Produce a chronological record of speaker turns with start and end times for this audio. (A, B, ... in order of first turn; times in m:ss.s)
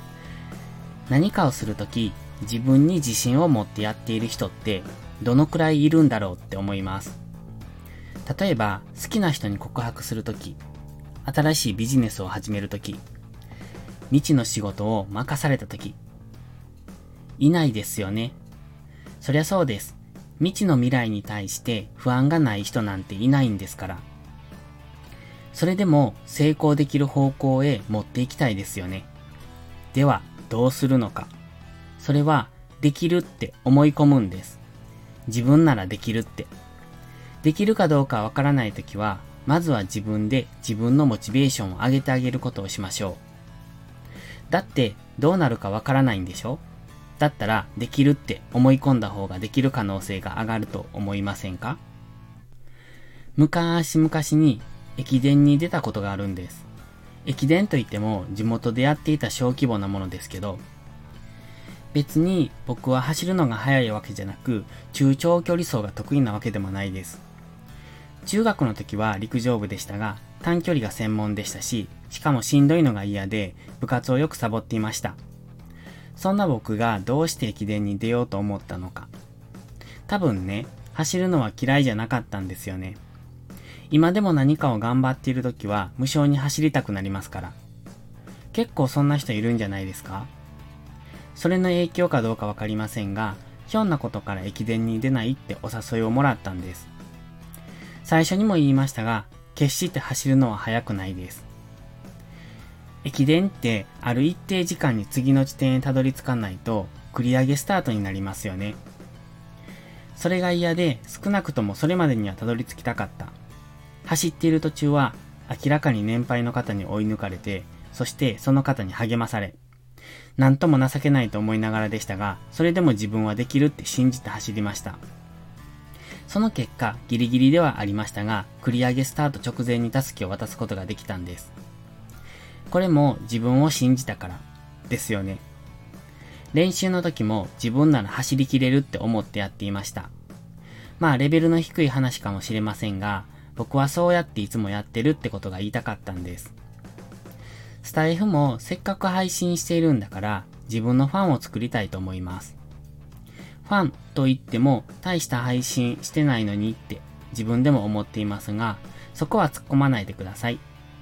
0:01.1-0:07.2 A
0:08.2-0:10.6 A
0:11.2-0:13.0 A
0:14.1-0:16.0 A
0:17.4-0:18.4 A
0:19.2-0:24.0 A
0:25.5-0:29.1 A
0:29.9-0:31.3 A
0:32.0-0:34.6 A
0:35.3-0:36.5 A
0:37.4-0:43.2 A
0:44.5-0:46.6 A
0:47.2-0:51.8 A
0:53.4-0:56.6 A
0:57.2-1:00.6 A
1:01.9-1:07.2 A
1:08.2-1:15.2 A
1:16.2-1:19.1 A
1:20.1-1:23.0 A
1:23.9-1:27.6 A
1:28.5-1:30.3 A
1:31.3-1:36.9 A
1:38.0-1:41.4 A
1:43.0-1:48.8 A
1:50.1-1:53.3 A
1:54.0-1:59.6 A
2:00.4-2:05.0 A
2:06.3-2:11.5 A
2:12.7-2:15.4 A
2:16.5-2:20.1 A
2:21.0-2:26.5 A
2:27.8-2:32.6 A
2:33.6-2:40.6 A